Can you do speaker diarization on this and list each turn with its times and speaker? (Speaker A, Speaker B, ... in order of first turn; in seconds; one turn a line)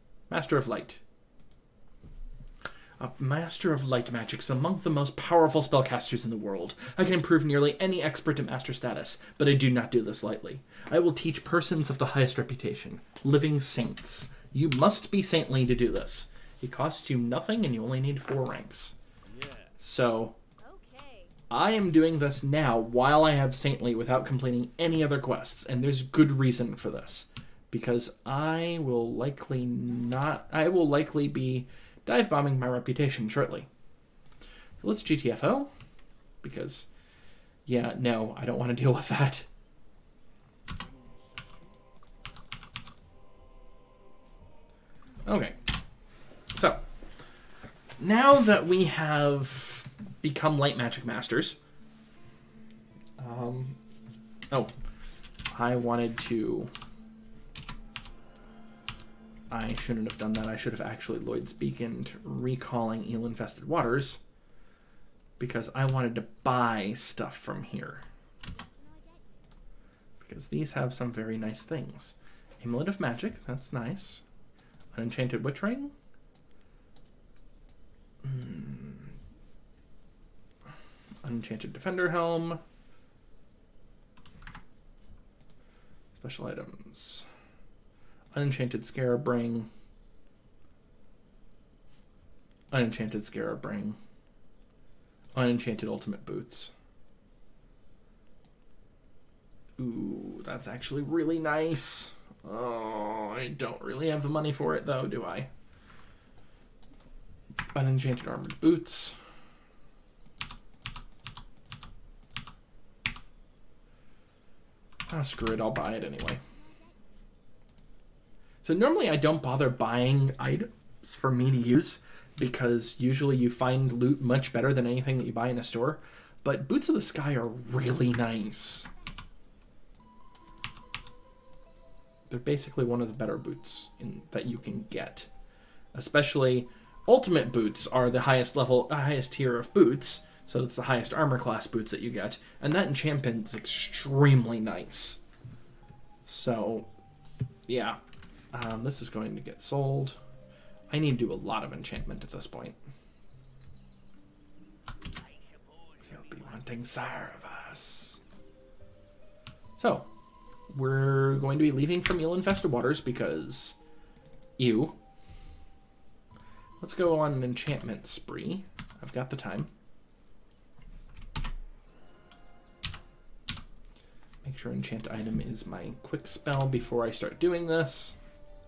Speaker A: 0.3-1.0
Speaker A: 3.0-18.9
Speaker B: 19.2-19.7
Speaker A: 19.8-20.4
Speaker C: 20.6-21.4
Speaker A: 21.5-33.7
Speaker A: 34.8-35.7
Speaker A: 36.4-36.9
Speaker A: 37.6-39.5
Speaker B: 40.7-41.8
Speaker A: 45.2-45.6
Speaker A: 46.5-46.8
Speaker A: 48.0-51.6
Speaker A: 53.2-53.8
Speaker A: 55.5-56.7
Speaker A: 59.5-64.2
Speaker A: 65.4-68.0
Speaker C: 68.5-69.5
Speaker A: 70.2-74.2
Speaker A: 74.9-75.9
Speaker A: 78.2-79.1
Speaker A: 81.2-82.6
Speaker A: 86.2-87.2
Speaker A: 88.3-89.7
Speaker A: 92.7-94.0
Speaker A: 95.3-96.7
Speaker A: 99.8-105.5
Speaker A: 107.7-109.2
Speaker A: 115.1-116.4
Speaker C: 116.4-117.0
Speaker A: 118.6-128.9
Speaker A: 132.3-135.3
Speaker A: 135.9-145.2
Speaker A: 146.2-146.9
Speaker A: 147.7-148.0
Speaker A: 148.5-150.2
Speaker A: 150.9-152.8
Speaker B: 155.1-156.7
Speaker A: 156.0-158.2
Speaker A: 159.8-160.1
Speaker A: 160.7-163.8
Speaker A: 164.6-165.0
Speaker A: 166.8-169.7
Speaker A: 174.4-178.2